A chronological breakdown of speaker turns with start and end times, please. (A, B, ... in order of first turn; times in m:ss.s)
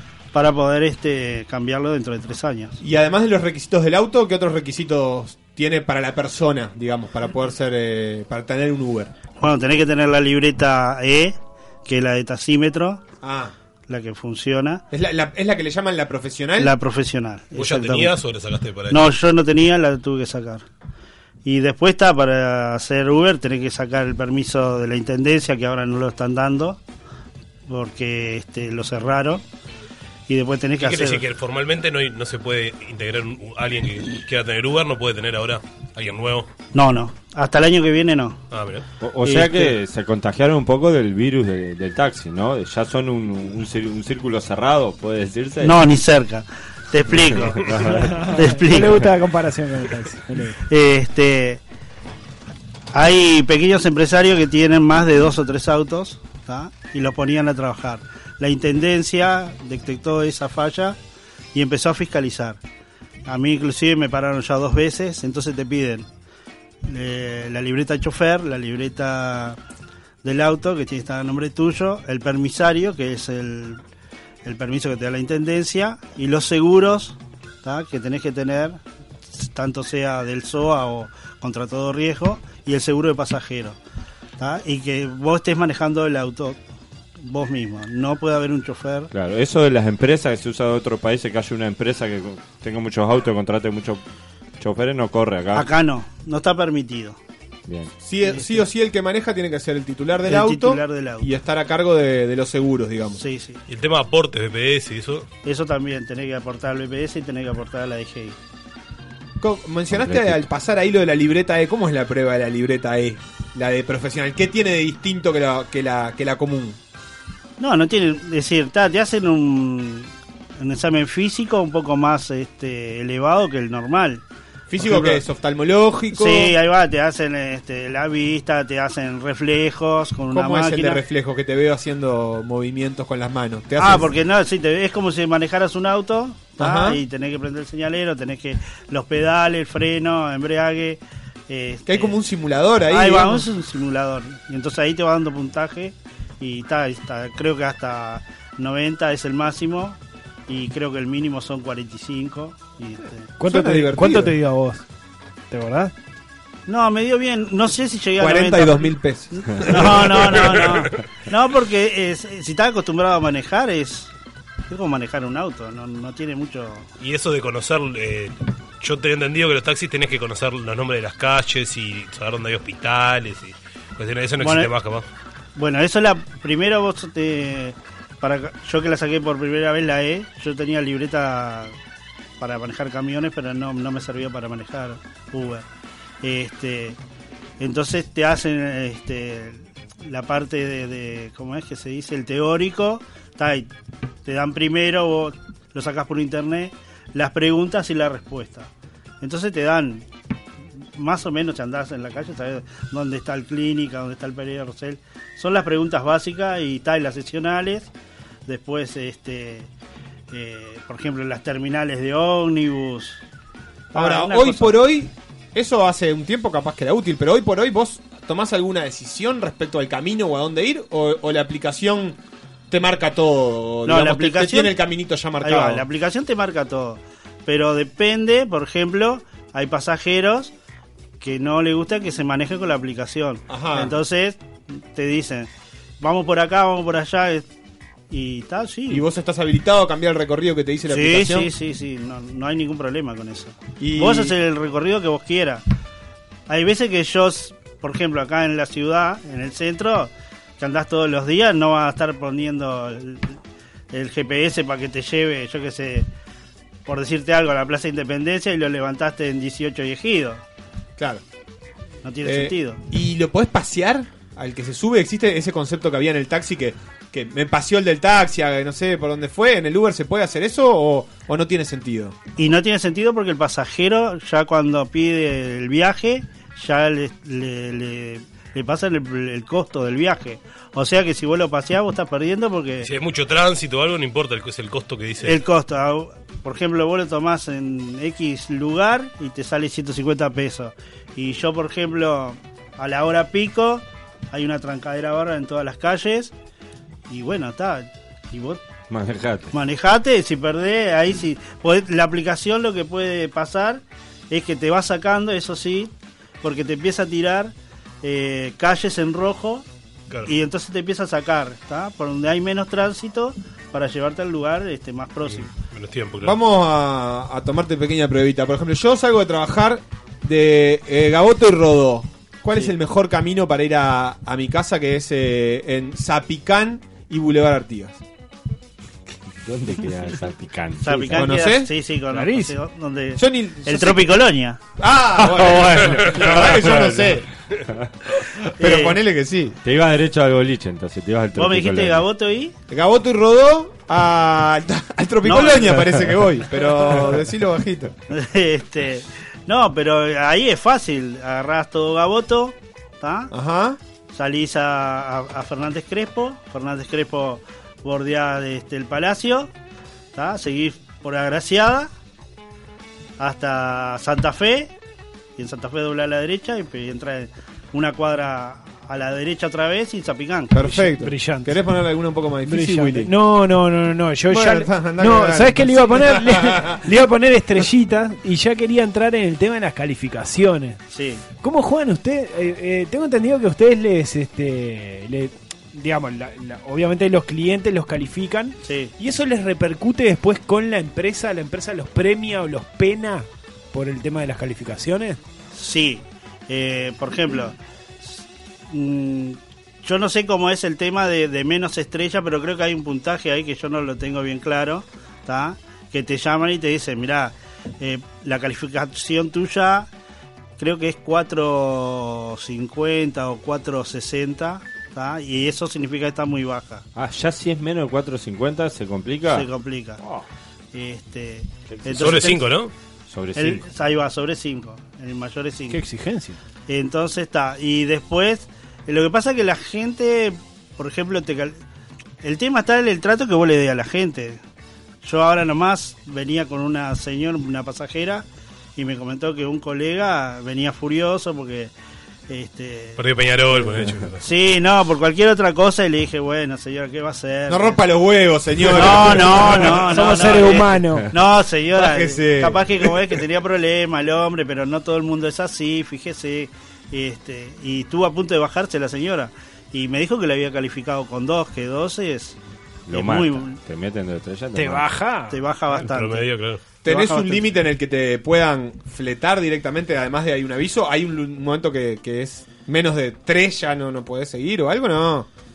0:00.3-0:02.8 A
0:02.8-0:09.1 B
0:09.4-0:13.0 A
0:13.2-0:13.5 B
0:13.9-0:14.8 A
0:14.9-0:16.7 B
0:16.6-0:18.2 A
0:17.5-0:19.0 C
0:18.9-0:20.6 A
0:21.4-0:26.8 A
0:27.7-0:29.4 A
0:30.3-0:31.3 A
0:30.8-0:36.5 C
0:36.7-0:38.4 A
0:38.5-0:38.8 C
0:39.0-0:45.8 D
0:39.2-0:39.7 A
0:45.6-0:47.7 A
0:47.1-0:48.2 D
0:47.9-0:50.6 E
0:48.2-0:49.0 A
0:50.7-0:51.6 A
0:52.9-1:01.0 A
1:01.5-1:02.6 A
1:03.2-1:06.1 A
1:06.8-1:09.6 A
1:10.2-1:13.8 A
1:14.4-1:18.8 A
1:19.3-1:23.8 A
1:24.4-1:26.6 A
1:27.2-1:29.1 A
1:29.1-1:34.0 D
1:34.6-1:35.7 D
1:35.5-1:37.2 A
1:38.0-1:43.2 B
1:38.2-1:38.6 A
1:40.2-1:41.3 A
1:43.2-1:43.6 A
1:43.7-1:45.2 C
1:45.4-1:48.4 A
1:49.4-1:56.8 B
1:49.9-1:50.5 D
1:57.6-2:04.2 A
2:04.7-2:06.6 B
2:04.8-2:05.2 A
2:06.1-2:11.0 A
2:10.3-2:14.1 B
2:13.8-2:22.2 A
2:16.6-2:17.0 B
2:21.8-2:23.5 B
2:22.9-2:33.3 A
2:33.4-2:34.8 E
2:33.4-2:34.3 B
2:35.5-2:35.9 E
2:36.7-2:44.1 A
2:38.2-2:40.6 B
2:40.2-2:40.9 C
2:44.7-2:46.9 A
2:47.0-2:55.0 C
2:54.4-2:54.7 A
2:55.6-3:01.7 A
3:02.4-3:05.6 A
3:06.2-3:07.0 A
3:07.6-3:13.7 A
3:14.2-3:18.7 A
3:19.2-3:20.0 A
3:20.9-3:27.9 A
3:28.4-3:29.7 A
3:30.3-3:33.2 A
3:33.9-3:34.8 A
3:33.9-3:42.2 B
3:42.7-3:45.8 B
3:43.8-3:44.8 A
3:45.4-3:50.5 A
3:51.2-3:55.5 A
3:53.5-3:53.9 B
3:56.0-3:57.5 A
3:58.1-3:59.0 A
3:58.9-4:01.5 B
4:00.9-4:05.6 A
4:03.8-4:04.3 B
4:06.5-4:13.4 A
4:13.9-4:16.1 A
4:16.8-4:20.4 A
4:22.0-4:22.8 A
4:22.2-4:32.2 B
4:32.4-4:42.9 A
4:42.8-4:45.4 C
4:45.2-4:56.3 A
4:57.1-4:58.6 A
4:58.9-4:59.5 D
4:59.5-5:09.6 A
5:10.2-5:15.5 A
5:15.3-5:16.4 C
5:16.2-5:28.0 B
5:29.4-5:31.3 D
5:30.8-5:34.6 A
5:31.1-5:31.7 B
5:32.1-5:32.6 E
5:33.2-5:34.2 B
5:34.8-5:37.2 B
5:35.2-5:37.9 D
5:38.6-5:39.0 A
5:38.6-5:39.6 B
5:39.6-5:42.0 D
5:41.3-5:42.5 A
5:42.7-5:47.9 B
5:45.2-5:45.9 A
5:48.1-5:53.3 A
5:53.3-5:53.8 B
5:54.1-5:59.5 A
6:00.1-6:01.9 A
6:03.2-6:04.7 A
6:05.4-6:10.6 A
6:10.5-6:13.1 B
6:10.6-6:11.6 E
6:12.4-6:20.8 E
6:14.3-6:16.8 B
6:20.9-6:21.2 A
6:21.4-6:35.2 E
6:28.6-6:28.9 A
6:35.5-6:49.9 A
6:50.6-6:56.8 A
6:57.0-6:59.5 D
6:59.3-7:00.0 A
7:00.7-7:02.6 A
7:01.7-7:02.2 D
7:01.9-7:02.7 C
7:03.1-7:03.6 D
7:03.3-7:05.8 A
7:05.7-7:06.4 E
7:06.7-7:11.6 A
7:12.2-7:14.4 A
7:15.0-7:18.2 A
7:18.8-7:21.7 A
7:22.3-7:23.0 A
7:23.0-7:24.2 C
7:24.2-7:27.8 A
7:27.5-7:30.1 B
7:28.6-7:42.4 A
7:29.6-7:31.1 E
7:31.7-7:33.2 B
7:42.9-7:44.9 D
7:42.9-7:43.6 A
7:44.5-7:45.4 E
7:45.3-7:46.3 A
7:45.7-7:46.6 C
7:46.8-7:55.3 B
7:46.9-7:47.4 A